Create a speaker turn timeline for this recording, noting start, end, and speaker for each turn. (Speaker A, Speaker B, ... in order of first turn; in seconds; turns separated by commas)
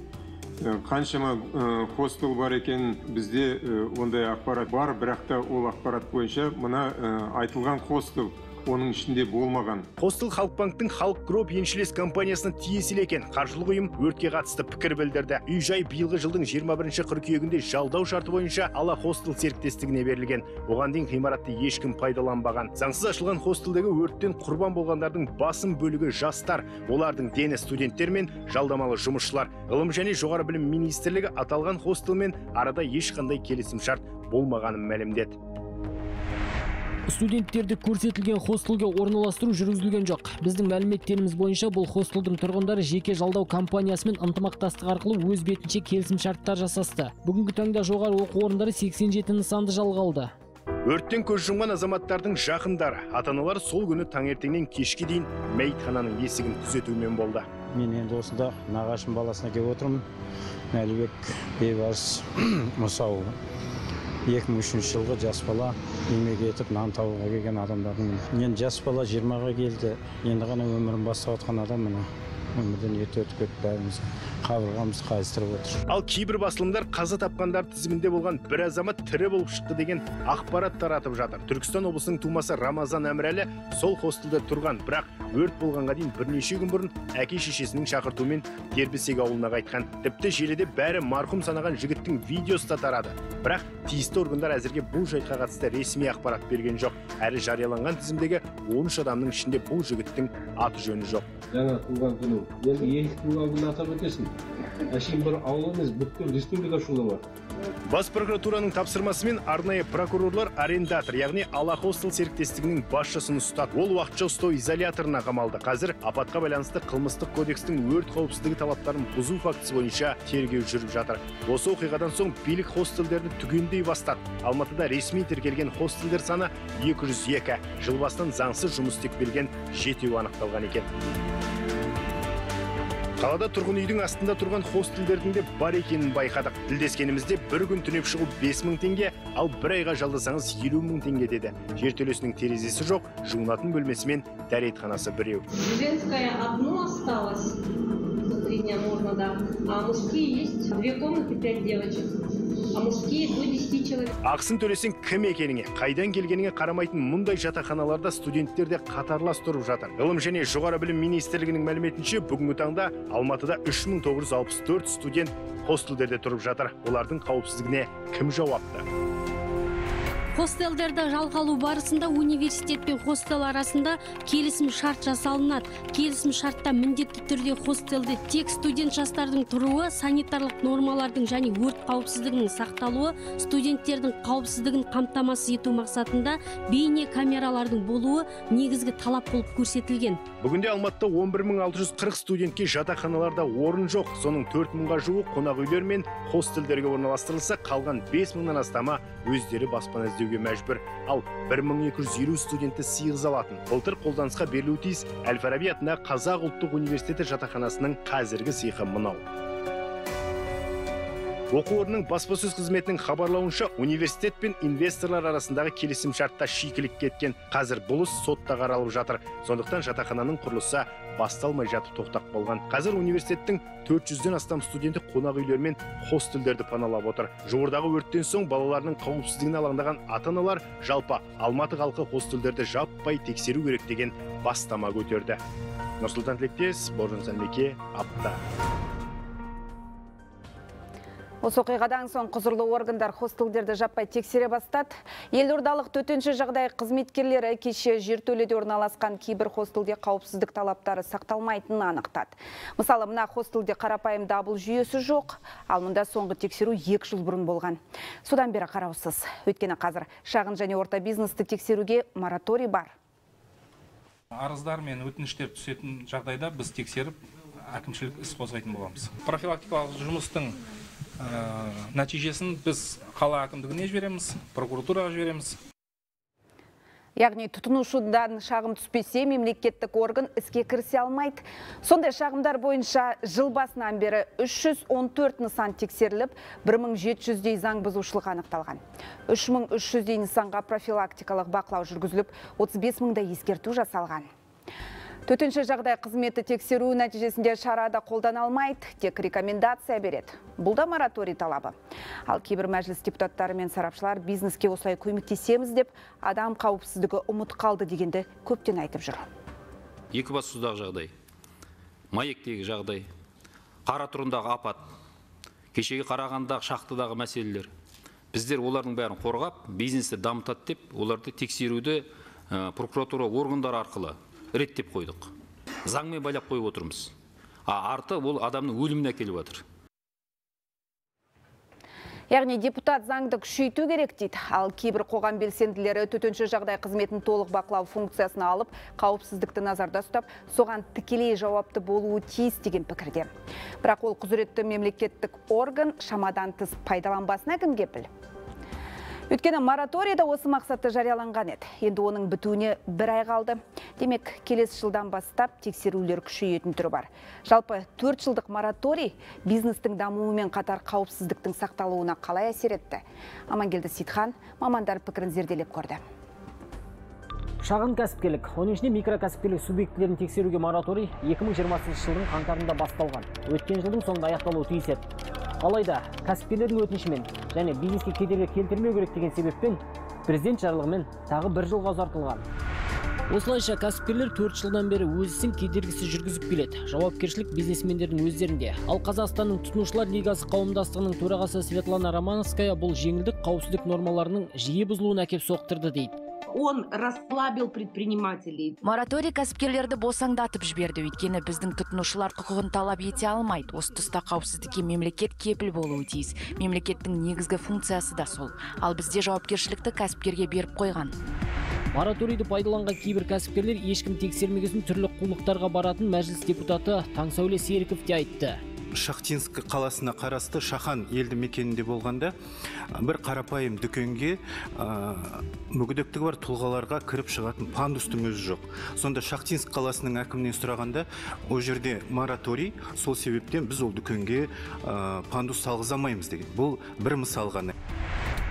Speaker A: 0.6-9.9, Speaker B: 10.0-35.4, Speaker C: 37.1-50.3, Speaker B: 50.8-57.5, Speaker D: 57.7-60.0, Speaker D: 60.7-63.3, Speaker D: 64.3-75.8, Speaker B: 75.9-101.3, Speaker E: 101.5-104.3, Speaker E: 104.9-107.2, Speaker B: 107.9-130.9, Speaker B: 133.2-145.4, Speaker F: 145.5-147.6, Speaker F: 148.2-152.1, Speaker F: 152.7-154.1, Speaker B: 154.2-168.8, Speaker G: 170.3-190.2, Speaker B: 190.4-209.2, Speaker B: 211.5-235.4, Speaker B: 236.0-238.4, Speaker H: 241.4-262.9, Speaker I: 264.3-270.6, Speaker I: 271.2-275.6, Speaker H: 277.2-294.3, Speaker H: 295.2-301.7, Speaker H: 302.3-309.2, Speaker J: 310.1-311.1, Speaker J: 312.1-313.1, Speaker J: 313.9-314.9, Speaker J: 315.7-317.7, Speaker J: 318.3-325.3, Speaker J: 325.9-327.1, Speaker J: 327.7-329.6, Speaker H: 332.3-343.3, Speaker H: 343.8-348.1, Speaker H: 349.3-366.0, Speaker C: 367.6-375.0, Speaker C: 375.6-382.4, Speaker C: 383.3-396.1, Speaker F: 396.5-398.8, Speaker K: 398.8-411.1, Speaker C: 411.9-418.6, Speaker L: 419.1-422.3, Speaker L: 423.0-424.3, Speaker L: 425.8-431.0, Speaker L: 431.5-437.6